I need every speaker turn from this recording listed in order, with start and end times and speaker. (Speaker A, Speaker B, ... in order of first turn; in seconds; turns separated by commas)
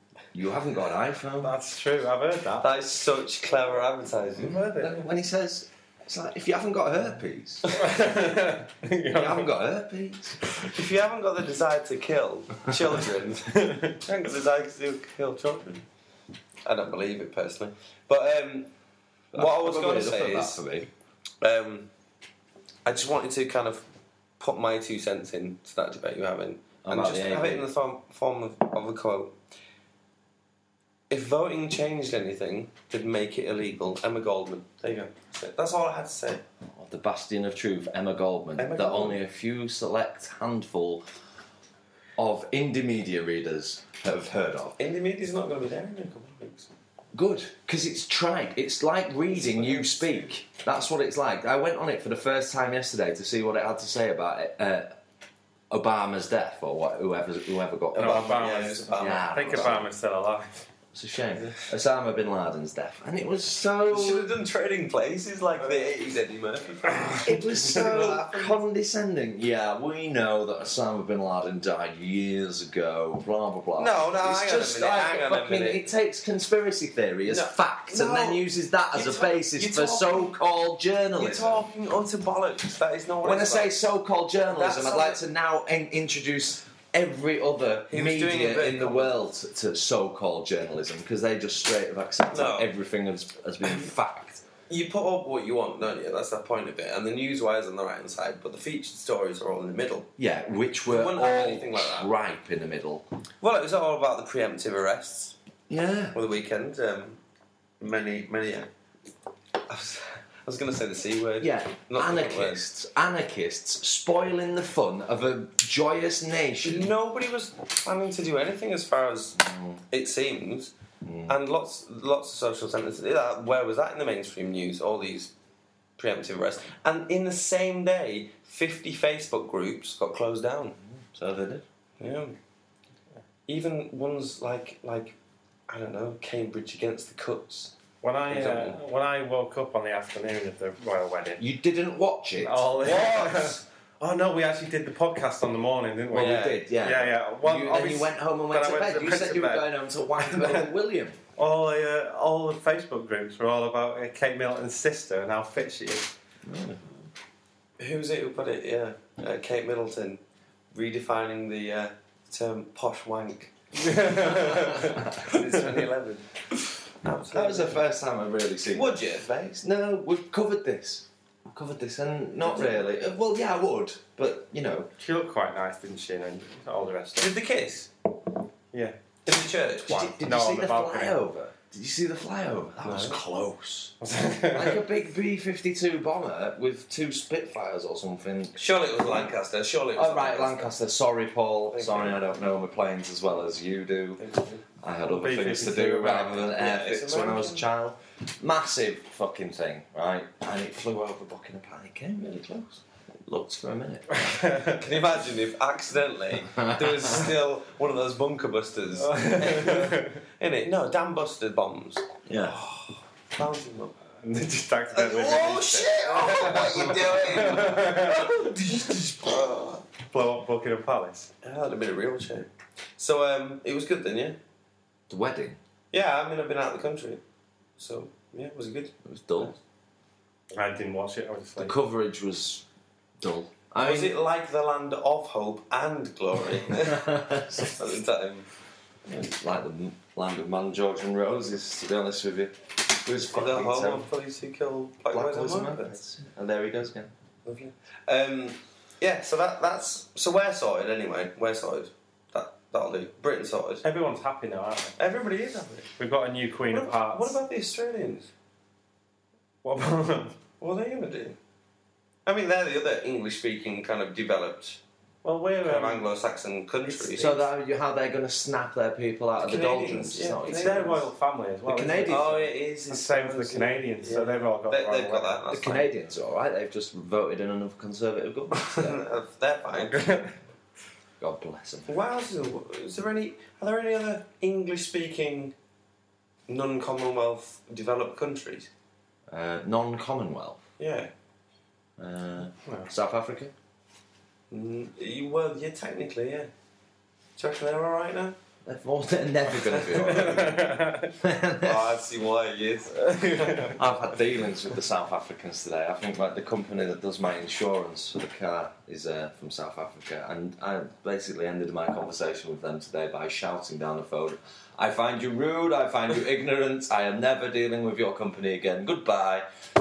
Speaker A: 0.3-1.5, Speaker B: 1.4-2.7, Speaker C: 2.6-4.6, Speaker A: 4.4-7.7, Speaker B: 4.4-5.0, Speaker B: 7.7-9.5, Speaker A: 9.1-10.4, Speaker C: 10.7-15.8, Speaker B: 13.5-14.0, Speaker C: 16.6-18.7, Speaker A: 19.3-20.9, Speaker C: 19.3-20.6, Speaker C: 21.4-21.9, Speaker C: 22.8-23.8, Speaker C: 24.4-29.4, Speaker A: 26.8-27.6, Speaker C: 31.1-36.4, Speaker A: 36.7-41.0, Speaker C: 38.6-39.2, Speaker A: 42.2-44.8, Speaker C: 44.8-46.7, Speaker A: 47.1-54.9, Speaker C: 49.4-50.2, Speaker A: 55.7-59.9, Speaker C: 57.9-59.8, Speaker B: 57.9-60.7, Speaker A: 60.9-64.3, Speaker C: 63.9-68.6, Speaker A: 67.2-81.7, Speaker C: 73.8-75.8, Speaker C: 77.2-80.4, Speaker C: 81.2-83.7, Speaker A: 83.2-94.4, Speaker C: 84.5-85.2, Speaker C: 87.9-89.2, Speaker C: 92.3-92.7, Speaker C: 94.7-100.1, Speaker A: 100.2-103.0, Speaker C: 100.9-102.1, Speaker C: 103.4-105.3, Speaker A: 105.7-106.2, Speaker C: 106.1-107.2, Speaker C: 107.8-108.7, Speaker C: 109.7-112.6, Speaker A: 111.4-116.9, Speaker C: 116.6-120.7, Speaker A: 119.4-119.8, Speaker A: 121.0-121.4, Speaker C: 121.3-125.3, Speaker C: 126.0-130.8, Speaker A: 130.9-131.6, Speaker C: 132.0-132.3, Speaker C: 133.5-135.1, Speaker C: 135.7-137.7, Speaker B: 138.0-141.4, Speaker C: 138.3-138.8, Speaker A: 141.4-143.6, Speaker B: 142.4-150.7, Speaker A: 146.1-151.2, Speaker B: 151.4-156.1, Speaker A: 156.4-156.9, Speaker C: 157.8-160.2, Speaker C: 160.7-167.8, Speaker B: 163.8-164.9, Speaker A: 167.3-174.9, Speaker C: 168.7-169.6, Speaker C: 172.4-172.8, Speaker B: 175.0-177.3, Speaker C: 177.2-177.9, Speaker B: 178.7-181.2, Speaker C: 179.3-180.1, Speaker A: 179.8-183.9, Speaker C: 182.8-183.2, Speaker B: 184.0-184.8, Speaker A: 184.5-188.6, Speaker C: 188.6-190.7, Speaker A: 189.9-194.2, Speaker C: 191.7-192.2, Speaker C: 194.2-194.6, Speaker A: 194.8-204.2, Speaker B: 195.0-196.4, Speaker C: 196.1-197.6, Speaker B: 204.1-204.8, Speaker C: 204.8-214.0, Speaker A: 206.5-207.2, Speaker B: 209.0-210.2, Speaker A: 212.2-212.6, Speaker B: 214.2-218.5, Speaker C: 214.9-219.8, Speaker B: 220.1-221.3, Speaker C: 221.4-224.4, Speaker A: 225.1-225.6, Speaker C: 225.9-227.2, Speaker C: 227.8-229.6, Speaker A: 229.0-229.5, Speaker B: 230.5-231.7, Speaker A: 231.6-232.6, Speaker A: 233.2-234.1, Speaker C: 233.8-238.5, Speaker A: 236.9-237.7, Speaker A: 239.1-244.1, Speaker C: 243.3-246.0, Speaker A: 245.1-247.1, Speaker C: 247.4-253.8, Speaker B: 253.8-255.0, Speaker C: 255.0-255.9, Speaker B: 256.0-257.4, Speaker C: 256.7-258.3, Speaker B: 259.6-260.4, Speaker C: 260.6-261.4, Speaker C: 262.2-264.8, Speaker B: 265.2-266.1, Speaker C: 265.6-267.4, Speaker B: 266.9-267.1, Speaker A: 267.1-271.0, Speaker C: 269.4-271.0, Speaker B: 270.4-275.4, Speaker A: 271.7-272.5, Speaker C: 272.1-275.9, Speaker A: 275.5-279.0, Speaker C: 278.6-280.2, Speaker B: 279.9-280.3, Speaker A: 281.2-281.9, Speaker C: 281.9-285.5, Speaker C: 286.5-288.7, Speaker A: 289.3-290.6, Speaker C: 290.8-291.1, Speaker A: 292.0-293.5, Speaker C: 294.5-296.5, Speaker C: 297.4-298.4, Speaker A: 298.6-302.0, Speaker C: 299.7-300.3, Speaker B: 300.1-301.1, Speaker C: 301.6-303.8, Speaker B: 303.0-303.7, Speaker A: 303.7-319.4